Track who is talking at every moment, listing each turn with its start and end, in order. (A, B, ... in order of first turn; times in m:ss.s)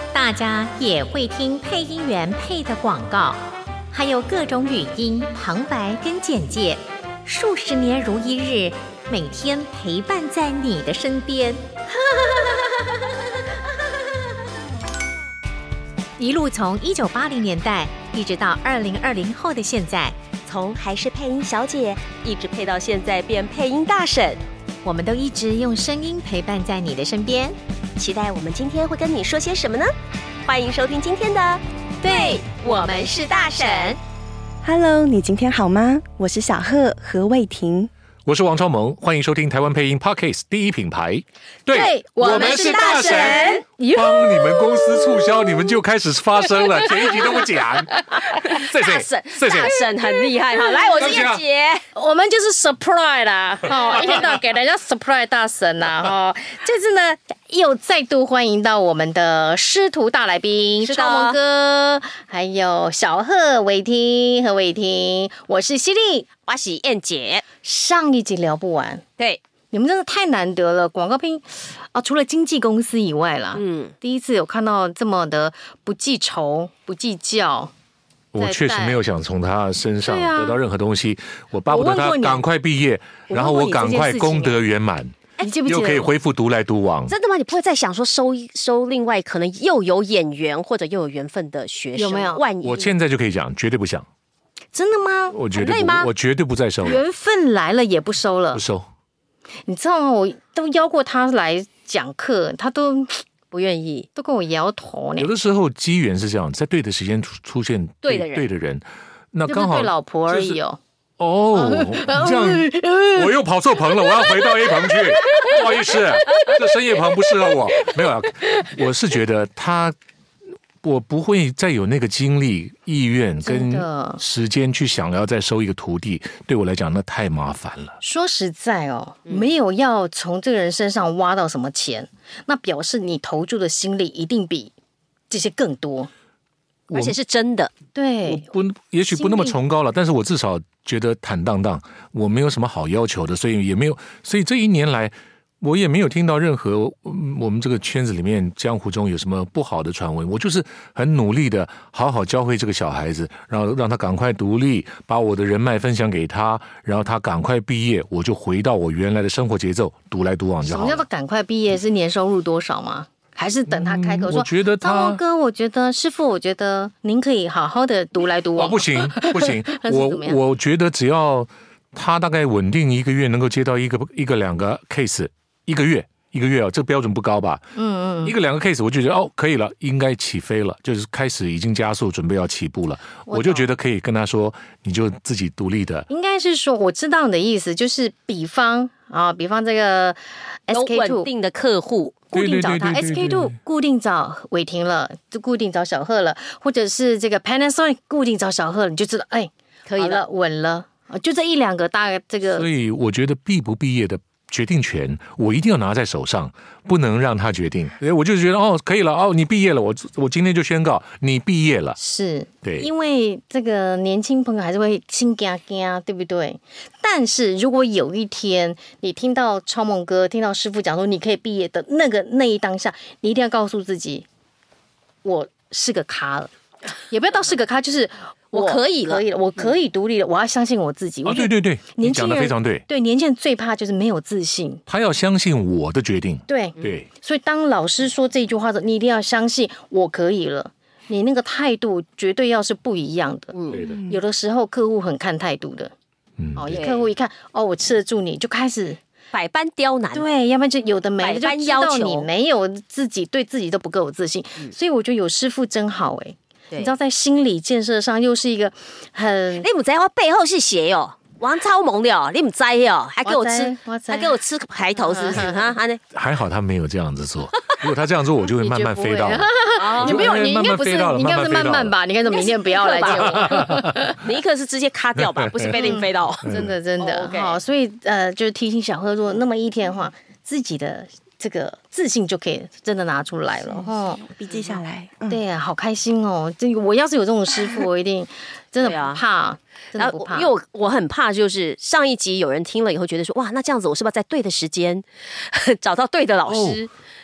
0:00.1-0:11.6 A
0:16.2-0:20.2 A
0:20.4-0:24.4 B
0:24.8-0:27.6 A
0:28.0-0:29.9 B
0:30.4-0:34.0 B
0:32.0-0:33.1 A
0:34.6-0:37.9 C
0:38.2-0:49.8 D
0:41.7-0:45.6 E
0:42.2-0:43.6 B
0:46.6-0:48.2 E
0:48.4-0:51.8 B
0:51.0-0:51.4 D
0:51.9-1:06.2 E
1:00.8-1:01.4 B
1:06.5-1:07.4 B
1:07.6-1:09.0 E
1:09.7-1:17.7 E
1:13.5-1:13.9 B
1:18.3-1:27.1 D
1:18.4-1:19.0 E
1:20.0-1:20.6 E
1:21.7-1:22.4 E
1:23.3-1:24.6 E
1:25.4-1:26.1 E
1:27.1-1:32.9 B
1:32.0-1:32.4 E
1:32.6-1:34.0 D
1:34.7-1:35.4 E
1:35.3-1:37.0 D
1:35.5-1:36.1 B
1:36.8-1:38.6 E
1:38.5-1:38.9 D
1:39.6-1:43.2 E
1:43.5-1:44.1 B
1:44.2-1:45.3 E
1:45.2-1:50.6 D
1:48.0-1:48.4 B
1:49.5-1:50.8 E
1:51.2-1:59.9 D
1:51.5-1:57.9 E
2:00.8-2:08.0 D
2:03.4-2:04.2 E
2:08.0-2:14.7 E
2:15.3-2:16.1 E
2:16.9-2:17.2 D
2:16.9-2:17.7 B
2:17.9-2:18.5 E
2:18.2-2:41.0 D
2:19.1-2:19.6 E
2:40.6-2:50.4 E
2:43.7-2:45.2 D
2:48.6-2:57.6 D
2:57.7-2:58.4 E
2:58.2-3:06.1 D
3:03.2-3:03.7 E
3:06.1-3:11.3 E
3:10.7-3:13.0 B
3:12.3-3:22.7 E
3:12.3-3:13.5 D
3:19.9-3:20.2 B
3:22.4-3:32.0 D
3:32.0-3:44.2 E
3:32.6-3:32.9 D
3:45.2-3:54.8 E
3:48.5-3:49.3 B
3:51.2-3:52.8 D
3:54.9-3:57.1 D
3:56.5-4:03.5 E
4:03.5-4:03.8 B
4:03.7-4:04.0 D
4:03.9-4:04.2 C
4:04.1-4:05.9 E
4:06.4-4:06.8 D
4:06.6-4:09.0 E
4:06.7-4:07.1 B
4:09.3-4:10.2 B
4:10.1-4:19.7 E
4:11.2-4:12.3 B
4:19.6-4:26.0 B
4:23.2-4:24.4 E
4:24.9-4:25.7 E
4:26.1-4:31.9 D
4:28.5-4:34.2 E
4:29.8-4:30.3 B
4:32.3-4:37.6 B
4:33.1-4:34.1 D
4:35.2-4:36.7 D
4:35.7-4:44.2 E
4:43.6-4:45.4 C
4:45.3-4:50.5 E
4:48.8-4:49.2 B
4:50.0-4:56.9 B
4:56.5-4:56.8 D